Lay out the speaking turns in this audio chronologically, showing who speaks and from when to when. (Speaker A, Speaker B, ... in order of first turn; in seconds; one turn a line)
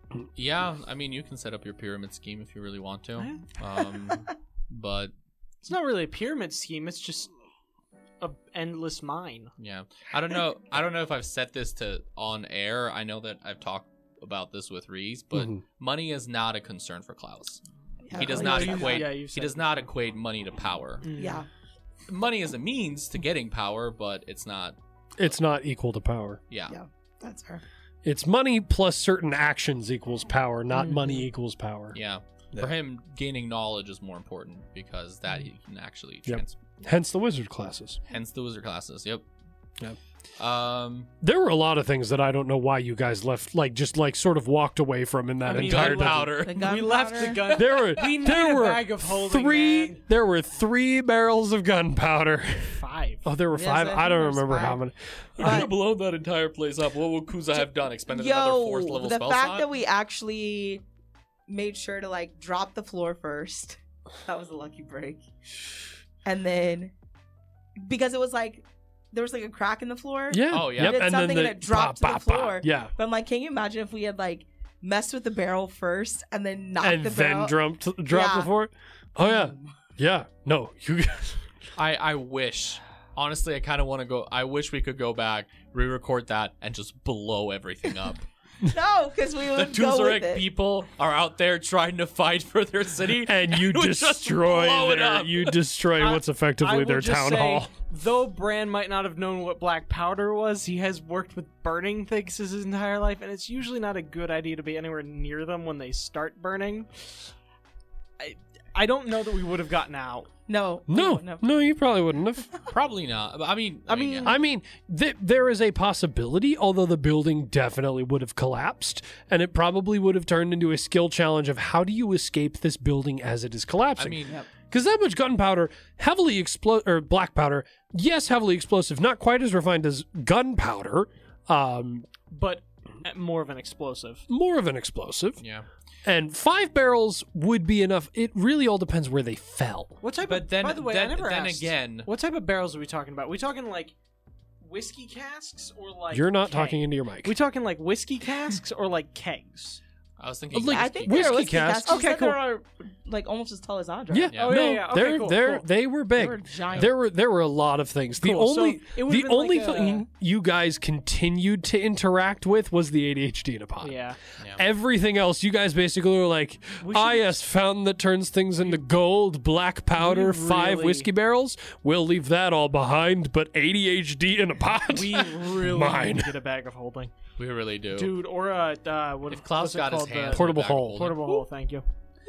Speaker A: 0.4-5.1
Speaker B: 3.2-3.5
Speaker B: 5.7-7.3
Speaker B: 8.2-9.5
Speaker A: 9.6-17.6
Speaker C: 15.3-15.6
Speaker D: 18.1-19.1
Speaker A: 18.1-21.1
Speaker B: 18.1-19.9
Speaker B: 21.0-21.4
Speaker D: 21.2-21.5
Speaker A: 22.1-24.8
Speaker C: 25.2-26.4
Speaker A: 26.5-26.8
Speaker D: 26.7-27.6
Speaker C: 28.0-32.0
Speaker B: 30.7-31.3
Speaker A: 31.9-36.7
Speaker C: 36.3-38.0
Speaker A: 38.1-39.2
Speaker A: 40.4-41.1
Speaker C: 41.2-46.3
Speaker B: 45.5-50.0
Speaker A: 45.5-48.2
Speaker D: 46.4-47.4
Speaker C: 47.6-55.7
Speaker B: 52.7-53.3
Speaker D: 53.5-54.8
Speaker A: 55.4-59.7
Speaker D: 55.4-55.7
Speaker D: 58.1-60.8
Speaker D: 61.5-65.2
Speaker D: 66.2-66.9
Speaker D: 67.8-77.6
Speaker C: 70.3-72.9
Speaker A: 70.5-71.0
Speaker C: 76.8-81.5
Speaker D: 78.1-78.5
Speaker D: 79.2-79.6
Speaker A: 81.8-88.2
Speaker D: 88.7-90.4
Speaker A: 89.5-95.6
Speaker C: 93.2-97.7
Speaker B: 96.0-107.1
Speaker B: 108.2-110.3
Speaker D: 110.5-111.5
Speaker C: 110.9-112.5
Speaker A: 112.7-114.4
Speaker B: 113.9-114.3
Speaker C: 114.2-132.1
Speaker A: 124.0-124.4
Speaker B: 132.3-134.2
Speaker C: 134.3-135.4
Speaker A: 135.4-135.7
Speaker C: 136.1-140.0
Speaker B: 140.0-143.9
Speaker A: 140.2-142.1
Speaker B: 144.6-149.8
Speaker C: 146.1-147.3
Speaker A: 150.2-151.6
Speaker C: 150.5-152.2
Speaker D: 150.7-154.3
Speaker B: 151.9-152.4
Speaker C: 154.1-164.0
Speaker A: 154.3-154.6
Speaker B: 154.3-155.7
Speaker D: 156.2-156.9
Speaker B: 158.2-160.0
Speaker B: 163.8-164.2
Speaker C: 164.6-176.3
Speaker B: 166.8-167.4
Speaker B: 170.0-171.1
Speaker B: 174.9-177.1
Speaker A: 177.4-178.1
Speaker B: 177.9-181.8
Speaker A: 179.3-181.4
Speaker C: 180.3-181.1